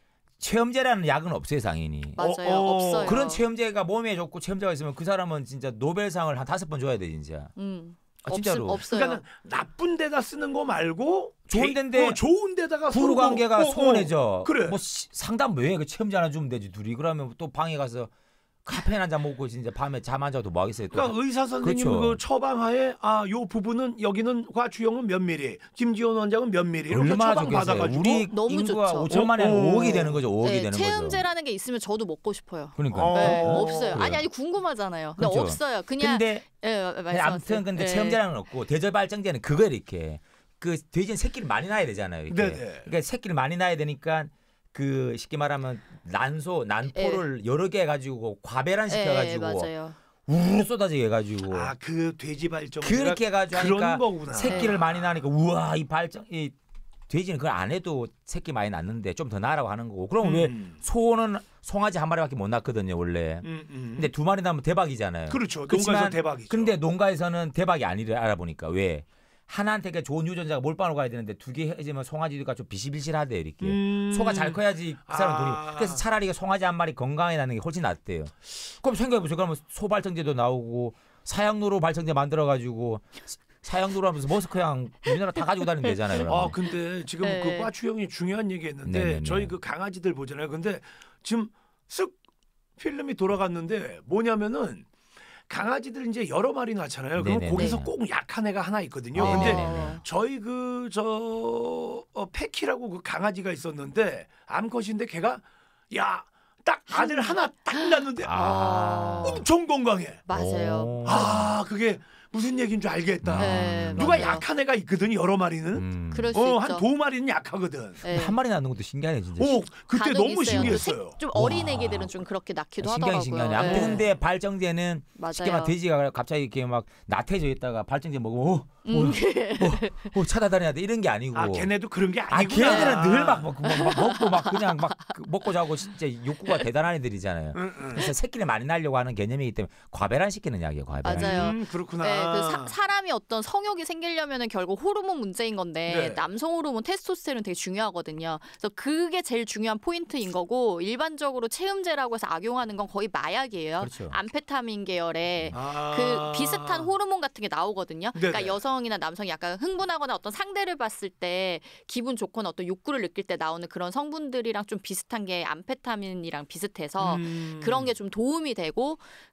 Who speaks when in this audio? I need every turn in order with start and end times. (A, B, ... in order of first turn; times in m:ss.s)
0:00.4-0:02.3 A
0:02.2-0:03.4 B
0:02.2-0:03.2 C
0:03.0-0:07.5 A
0:07.6-0:09.2 B
0:08.2-0:08.8 A
0:08.9-0:14.8 C
0:11.5-0:12.2 A
0:12.9-0:18.1 A
0:18.6-0:22.2 A
0:20.9-0:28.3 C
0:26.9-0:31.2 A
0:27.4-0:29.2 B
0:29.1-0:30.2 C
0:30.4-0:38.2 B
0:32.8-0:34.2 A
0:32.9-0:34.1 C
0:35.2-0:36.4 A
0:37.1-0:49.7 A
0:42.3-0:42.9 C
0:46.9-0:47.2 B
0:48.9-0:50.0 B
0:50.3-0:51.7 A
0:51.5-0:55.0 C
0:52.8-0:56.5 A
0:54.5-0:54.7 B
0:57.1-1:26.5 A
1:00.2-1:00.8 C
1:03.4-1:04.1 C
1:05.3-1:06.8 C
1:13.6-1:16.0 C
1:26.2-1:32.2 C
1:27.2-1:27.7 B
1:28.8-1:29.5 A
1:32.8-1:34.9 C
1:35.5-1:48.4 C
1:37.2-1:37.9 A
1:37.5-1:37.8 B
1:39.1-1:40.0 A
1:39.2-1:40.0 B
1:47.0-1:49.4 B
1:48.2-1:49.4 A
1:49.2-1:50.2 C
1:50.2-1:51.4 B
1:50.3-1:51.5 A
1:51.0-1:58.1 C
1:53.2-1:54.4 A
1:53.4-1:54.4 B
1:55.7-1:56.3 A
1:56.1-1:56.8 B
1:58.0-1:58.3 B
1:58.1-1:59.6 A
1:59.4-2:01.2 C
1:59.9-2:04.0 B
2:00.5-2:02.2 A
2:02.8-2:11.7 A
2:03.6-2:04.0 C
2:05.2-2:05.7 B
2:08.8-2:10.1 B
2:11.3-2:13.5 C
2:12.3-2:21.5 A
2:12.6-2:13.0 B
2:13.6-2:15.0 B
2:17.5-2:18.1 C
2:21.0-2:49.0 B
2:21.1-2:22.8 C
2:25.8-2:26.2 C
2:33.8-2:34.2 A
2:35.5-2:36.9 C
2:38.1-2:38.6 C
2:47.0-2:47.9 C